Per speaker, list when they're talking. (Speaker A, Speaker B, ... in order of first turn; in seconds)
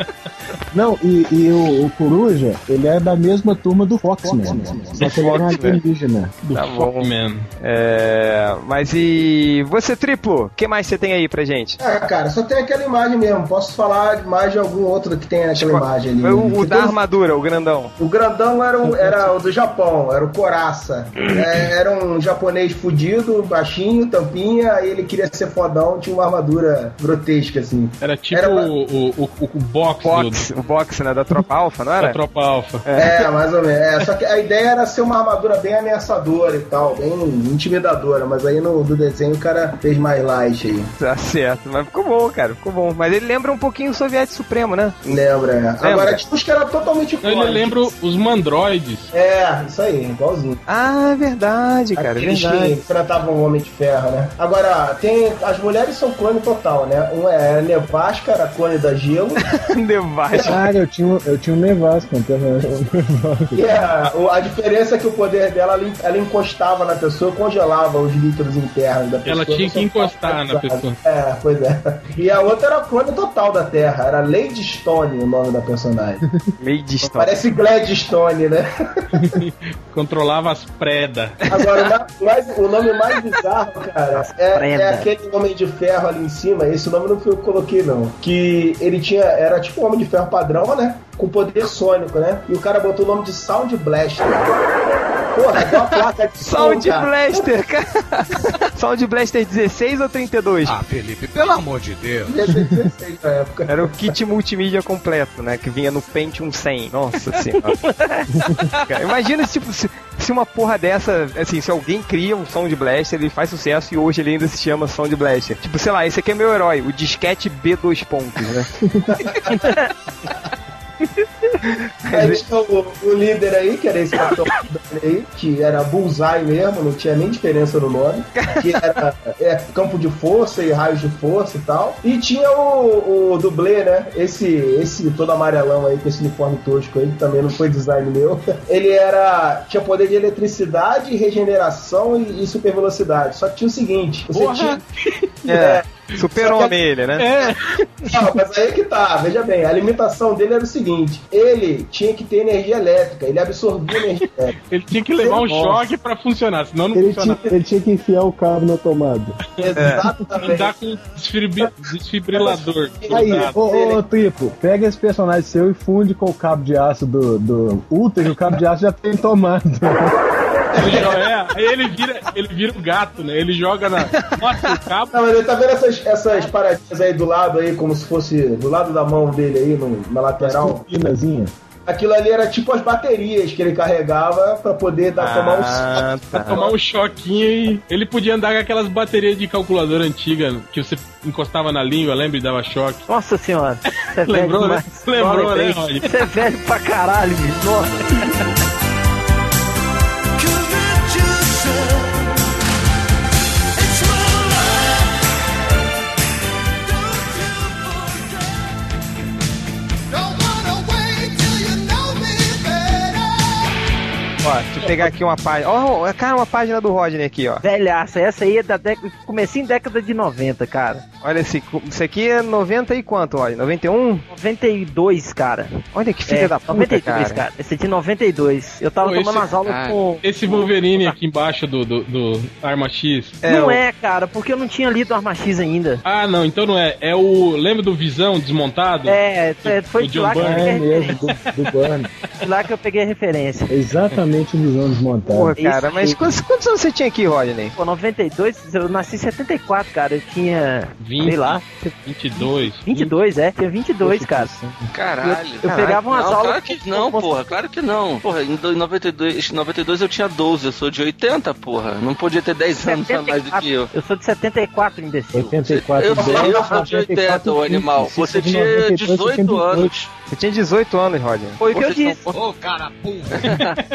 Speaker A: 0.7-6.4, 60.5-63.9, 102.5-102.9, 118.9-119.1, 156.9-159.4, 163.1-170.1, 180.4-181.5, 240.4-242.1, 243.7-245.5, 254.0-254.9, 265.3-269.9
Speaker B: 4.3-5.0, 11.8-17.0, 18.0-28.7, 33.0-40.9, 45.0-47.9, 49.1-50.6, 52.0-59.5, 60.3-60.6, 63.5-76.2, 77.1-79.2, 81.5-94.5, 95.3-97.5, 102.3-104.1, 119.1-119.7, 122.1-144.8, 145.5-145.8, 148.1-154.6, 155.2-155.6, 159.6-160.7, 162.3-164.0, 170.7-171.1, 175.1-180.8, 181.9-186.1, 266.2-266.6
Speaker C: 5.0-5.8, 6.5-7.1, 7.6-11.8, 15.6-17.9, 30.0-32.2, 32.9-33.3, 41.0-45.1, 45.8-46.2, 50.7-52.8, 59.6-60.6, 76.6-77.4, 81.5-81.9, 96.4-100.8, 103.7-107.8, 108.9-118.7, 122.1-122.4, 128.4-129.0, 145.5-147.5, 159.8-160.0, 174.0-174.6, 185.2-186.7, 214.4-217.6, 221.2-224.2, 225.9-227.4, 233.4-233.8, 245.3-247.7, 255.6-255.9, 270.3-271.6
Speaker D: 6.4-7.5, 28.0-30.4, 32.0-32.8, 47.2-49.1, 69.2-71.0, 79.1-81.4, 144.3-145.3, 146.3-148.1, 154.7-157.4, 159.6-163.6, 170.8-175.1, 186.4-193.1, 194.2-196.1, 229.0-229.5, 230.2-233.4, 236.0-240.8, 251.0-253.1
Speaker E: 84.4-85.1, 107.8-108.5, 119.5-119.9, 193.1-198.4, 217.6-221.0, 224.3-231.2, 233.4-236.0, 239.1-241.2, 242.4-243.7, 245.6-246.2, 247.8-254.5, 255.2-257.3, 262.8-265.6, 271.6-272.3
Speaker F: 100.7-102.3, 200.4-202.6, 203.8-205.2, 206.8-208.8, 210.1-213.7, 272.3-273.4
Speaker G: 229.7-230.0, 254.9-263.9, 265.6-270.1, 271.7-272.4, 273.4-273.8